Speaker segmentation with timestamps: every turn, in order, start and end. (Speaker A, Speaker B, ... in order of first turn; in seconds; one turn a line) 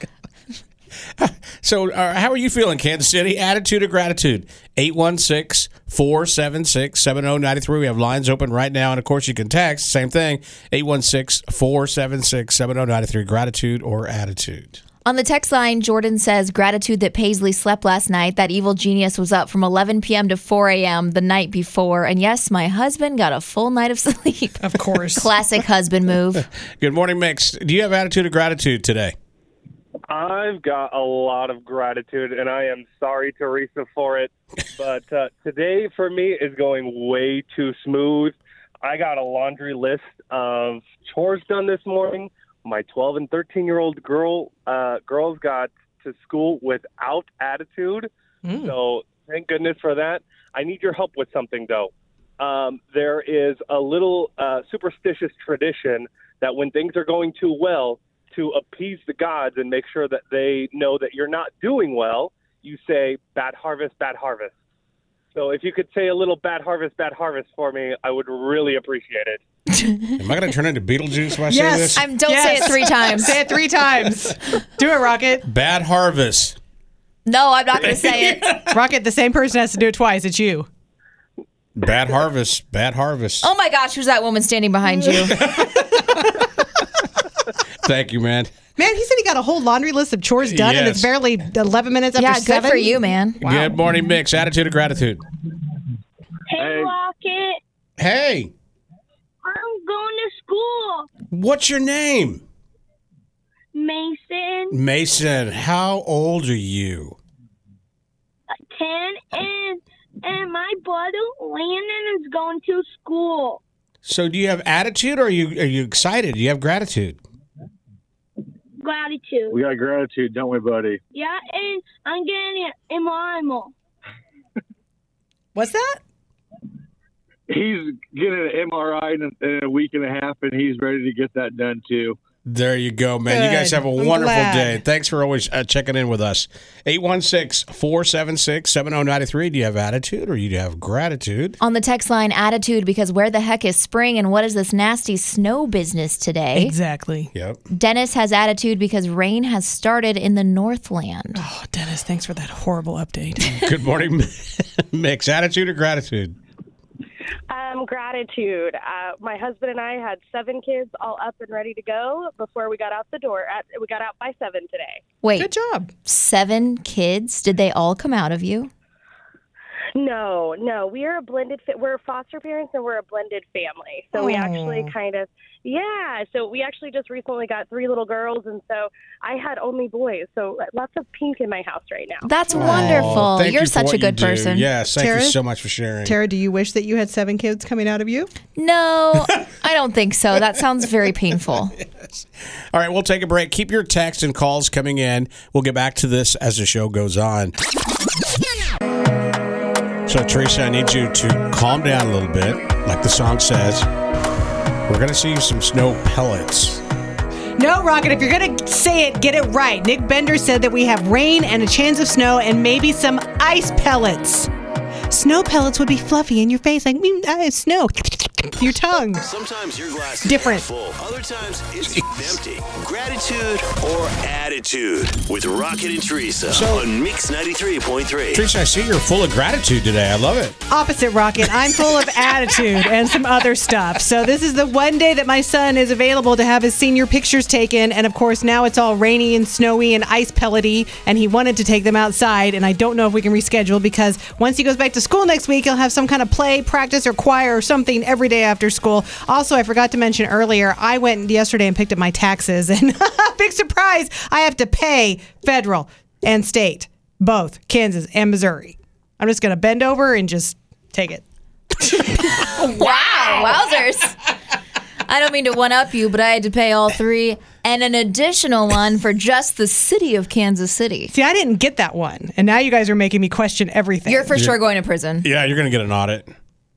Speaker A: 1.2-14.8
Speaker B: 15.0-26.4
Speaker C: 24.6-25.3
Speaker A: 26.8-29.1
Speaker D: 30.1-48.1
Speaker C: 48.4-48.7
Speaker D: 48.6-64.5
Speaker D: 65.3-69.4
Speaker B: 69.7-70.1
Speaker A: 70.2-72.0
Speaker C: 71.5-75.4
Speaker B: 71.9-73.4
Speaker A: 75.5-76.6
Speaker B: 77.2-78.6
Speaker A: 77.8-78.5
Speaker C: 78.7-80.7
Speaker A: 81.7-83.5
Speaker B: 83.4-85.4
Speaker A: 85.3-86.5
Speaker A: 87.8-88.5
Speaker C: 88.8-92.9
Speaker A: 90.4-91.1
Speaker B: 92.2-93.5
Speaker A: 93.4-95.2
Speaker C: 93.5-93.8
Speaker E: 96.5-97.6
Speaker A: 98.0-98.5
Speaker E: 99.4-101.1
Speaker A: 101.3-102.4
Speaker E: 103.7-104.8
Speaker A: 104.7-107.2
Speaker E: 108.7-113.6
Speaker A: 114.0-117.2
Speaker E: 118.8-119.6
Speaker F: 119.5-121.0
Speaker E: 121.1-123.7
Speaker C: 125.5-126.0
Speaker F: 127.5-132.2
Speaker A: 132.4-141.6
Speaker C: 133.3-134.8
Speaker B: 141.6-146.7
Speaker C: 146.5-147.3
Speaker A: 147.3-147.6
Speaker B: 147.7-151.4
Speaker C: 151.3-153.4
Speaker A: 153.5-156.3
Speaker G: 157.5-165.0
Speaker B: 165.2-165.5
Speaker C: 165.3-165.9
Speaker B: 166.1-168.7
Speaker G: 169.9-182.3
Speaker C: 174.1-174.9
Speaker B: 182.2-184.7
Speaker A: 182.5-186.2
Speaker C: 182.5-183.2
Speaker C: 184.9-185.4
Speaker C: 186.0-188.3
Speaker B: 188.5-191.8
Speaker A: 192.7-197.5
Speaker A: 200.1-203.9
Speaker A: 204.9-206.8
Speaker C: 207.6-214.5
Speaker C: 215.1-219.2
Speaker H: 219.2-228.4
Speaker C: 220.2-220.7
Speaker A: 226.5-226.9
Speaker A: 228.3-230.6
Speaker C: 230.7-261.2
Speaker B: 262.4-264.2
Speaker B: 265.1-271.1
Speaker C: 271.1-274.3
Speaker B: 274.1-275.3
Speaker A: 274.3-274.6
Speaker A: 275.2-276.3